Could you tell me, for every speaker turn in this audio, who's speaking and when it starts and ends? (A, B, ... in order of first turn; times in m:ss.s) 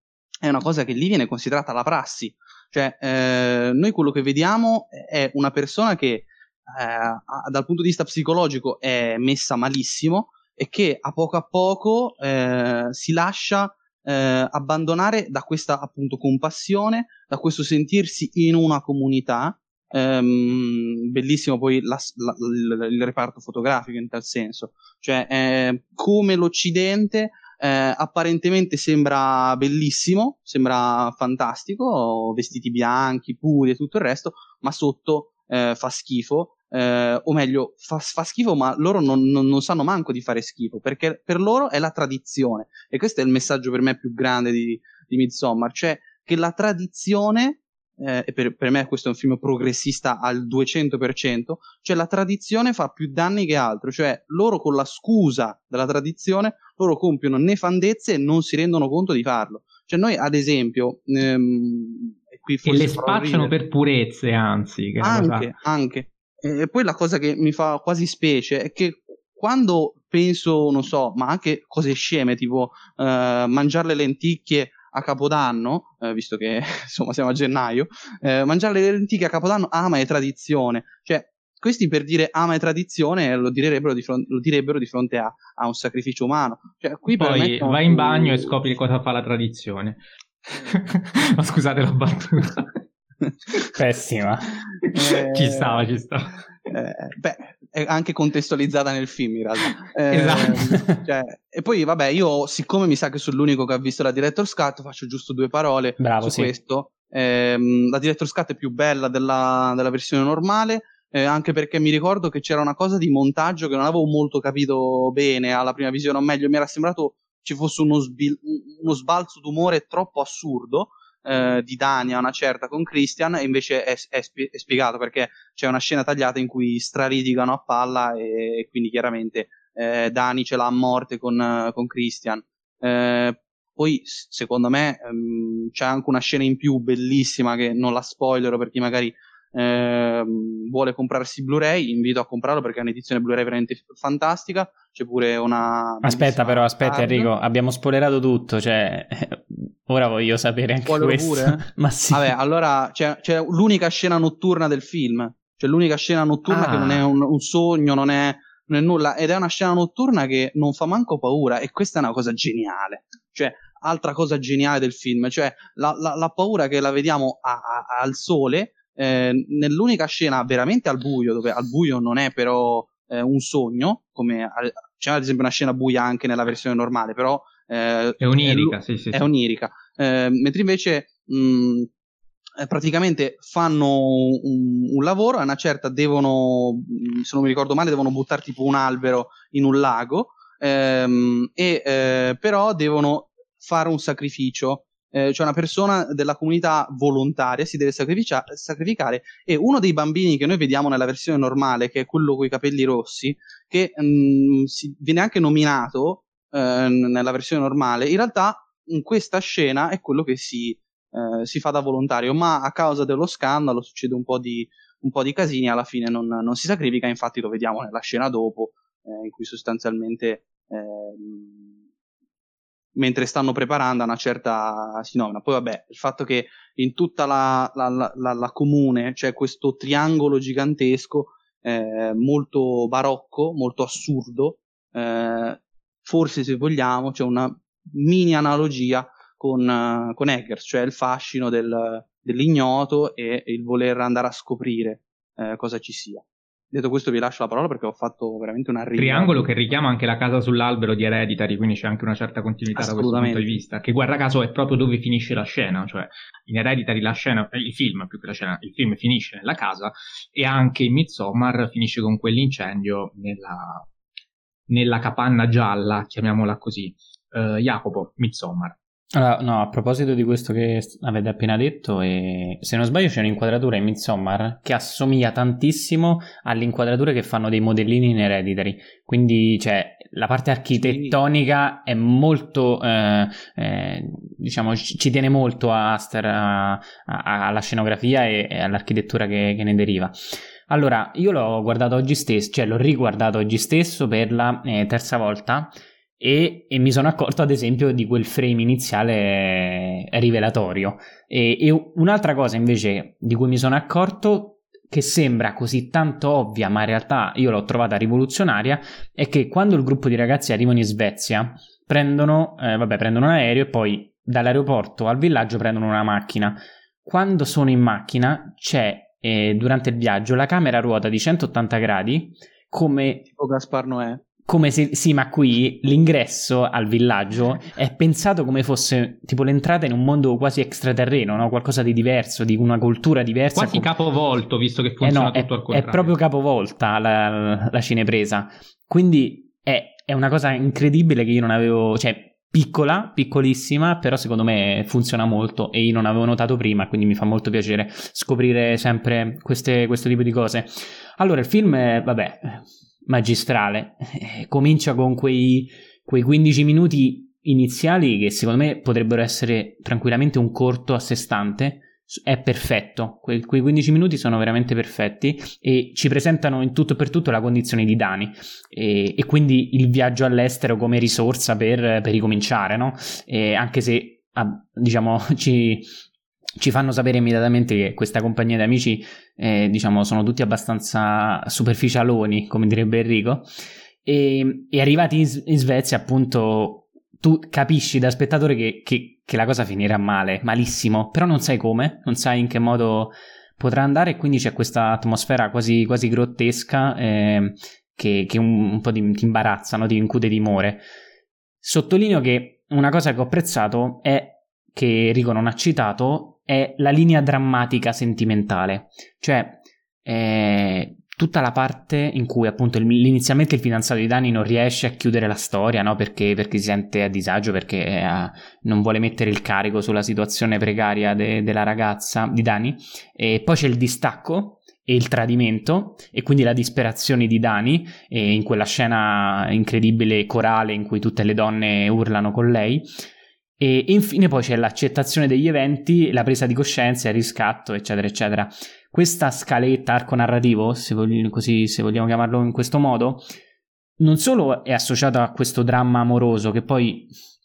0:00.4-1:03.5 A
1:02.6-1:05.5 B
1:05.0-1:28.6 A
1:27.2-1:32.8 B
1:33.8-1:34.5 C
1:34.8-1:36.4 B
1:34.9-1:35.9 A
1:36.7-2:27.3 A
1:40.1-1:40.9 B
1:46.0-1:46.5 C
2:26.0-2:32.4 C
2:30.9-3:01.9 A
2:36.5-2:37.1 C
2:58.2-2:59.2 B
3:02.6-3:41.7 A
3:43.0-4:09.4 A
4:09.0-4:23.9 B
4:12.8-4:13.6 A
4:24.7-4:28.8 B
4:29.1-5:23.3 C
4:40.8-4:41.2 A
5:23.4-5:24.2 A
5:24.5-5:33.9 C
5:33.5-5:36.2 B
5:35.0-6:15.9 C
6:16.6-6:23.5 C
6:24.0-6:40.9 C
6:41.6-7:12.9 C
7:13.6-7:23.3 C
7:24.0-7:27.1 C